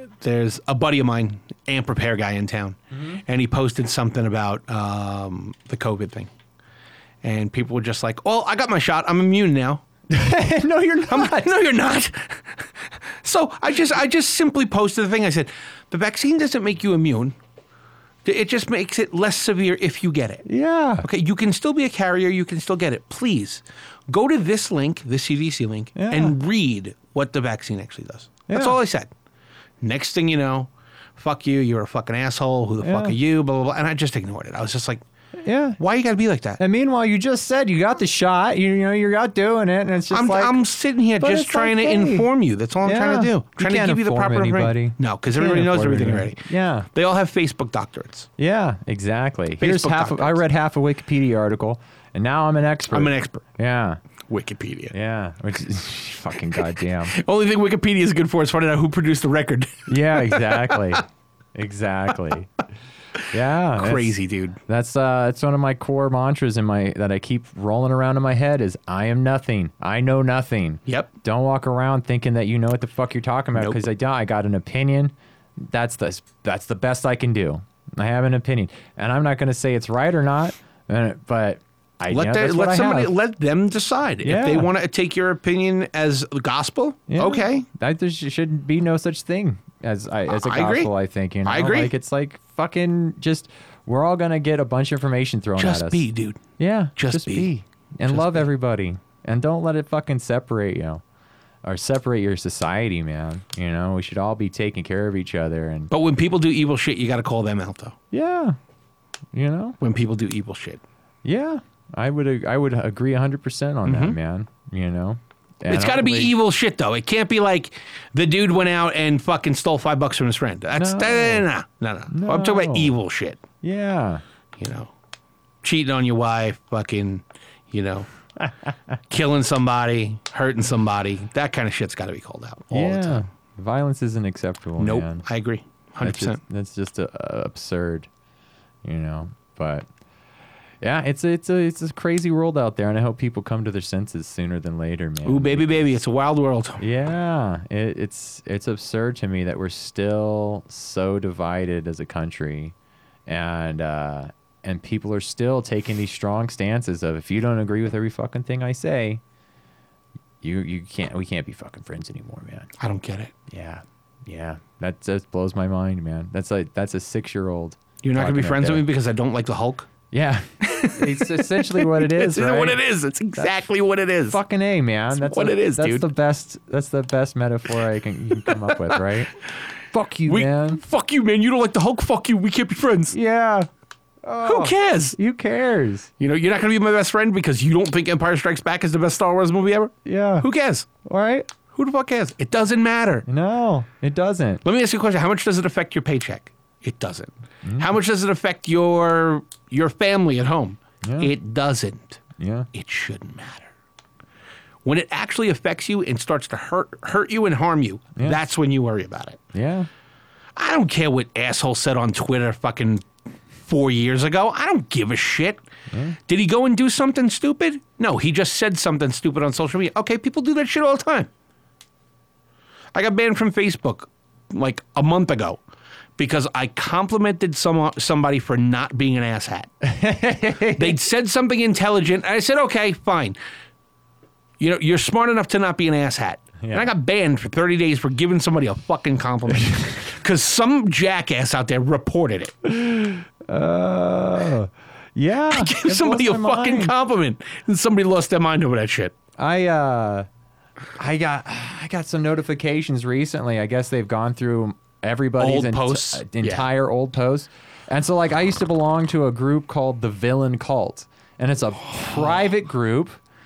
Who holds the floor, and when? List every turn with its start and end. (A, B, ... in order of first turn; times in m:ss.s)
0:00.2-0:06.3 A
0:02.9-0:03.2 B
0:07.2-0:09.8 A
0:10.1-0:11.6 B
0:11.1-0:17.3 A
0:18.2-0:20.4 A
0:20.4-0:21.1 B
0:21.0-0:29.1 A
0:25.9-0:26.4 B
0:28.5-0:28.8 B
0:29.8-0:35.0 A
0:32.8-0:33.2 B
0:35.4-0:35.8 B
0:35.8-0:36.6 A
0:36.6-0:40.6 B
0:40.1-0:48.3 A
0:41.2-0:42.3 B
0:42.8-0:46.9 B
0:48.4-0:54.0 B
0:49.6-0:50.4 A
0:52.9-0:53.4 A
0:54.3-0:54.9 A
0:54.9-0:57.2 B
0:57.1-1:00.9 A
0:59.9-1:02.5 B
1:03.3-1:04.2 B
1:03.7-1:04.6 A
1:04.7-1:23.1 B
1:13.6-1:13.8 A
1:22.1-1:27.6 A
1:24.2-1:24.7 B
1:27.1-1:36.0 B
1:30.3-1:30.9 A
1:31.4-1:31.9 A
1:35.6-1:36.4 A
1:36.6-1:41.0 B
1:37.0-1:37.5 A
1:38.1-1:38.5 A
1:41.6-1:45.9 B
1:45.9-1:48.0 A
1:48.1-1:48.6 B
1:49.3-1:49.8 B
1:49.8-1:50.8 A
1:51.2-1:56.3 B
1:53.8-1:54.2 A
1:55.7-2:03.4 A
2:00.7-2:01.4 B
2:02.1-2:02.9 B
2:03.6-2:04.2 B
2:04.6-2:04.9 A
2:05.6-2:08.1 A
2:09.1-2:13.2 A
2:12.7-2:15.2 B
2:14.8-2:16.4 A
2:16.0-2:18.1 B
2:18.8-2:19.9 B
2:20.8-2:25.8 B
2:25.2-2:26.8 A
2:26.8-2:32.7 B
2:33.3-2:39.2 B
2:40.4-2:42.7 B
2:42.8-2:43.3 A
2:43.5-2:48.8 B
2:48.0-2:49.9 A
2:50.1-2:52.8 B
2:50.6-2:54.4 A
2:54.3-2:59.3 B
2:55.1-2:56.1 A
2:58.5-2:59.0 A
2:59.9-3:00.8 B
3:00.3-3:03.1 A
3:03.1-3:03.7 B
3:04.2-3:06.1 B
3:04.4-3:05.2 A
3:06.2-3:10.9 A
3:10.0-3:10.5 B
3:11.0-3:11.5 B
3:11.7-3:13.2 A
3:13.2-3:14.6 B
3:14.6-3:22.2 A
3:17.6-3:17.9 B
3:21.0-3:21.3 B
3:22.4-3:22.7 B
3:22.7-3:23.7 A
3:24.8-3:29.4 A
3:28.2-3:28.4 B
3:29.5-3:29.9 B
3:30.6-3:33.1 A
3:33.6-3:35.6 A
3:35.9-3:36.2 B
3:36.3-3:41.3 A
3:42.9-3:45.6 A
3:46.2-3:49.7 A
3:49.8-3:51.0 B
3:50.8-3:53.4 A
3:54.6-4:02.5 A
3:56.6-3:56.9 B
3:59.6-4:00.0 B
4:02.6-4:06.9 B
4:05.5-4:09.2 A
4:09.4-4:10.3 B
4:11.0-4:23.2 B
4:15.4-4:16.7 A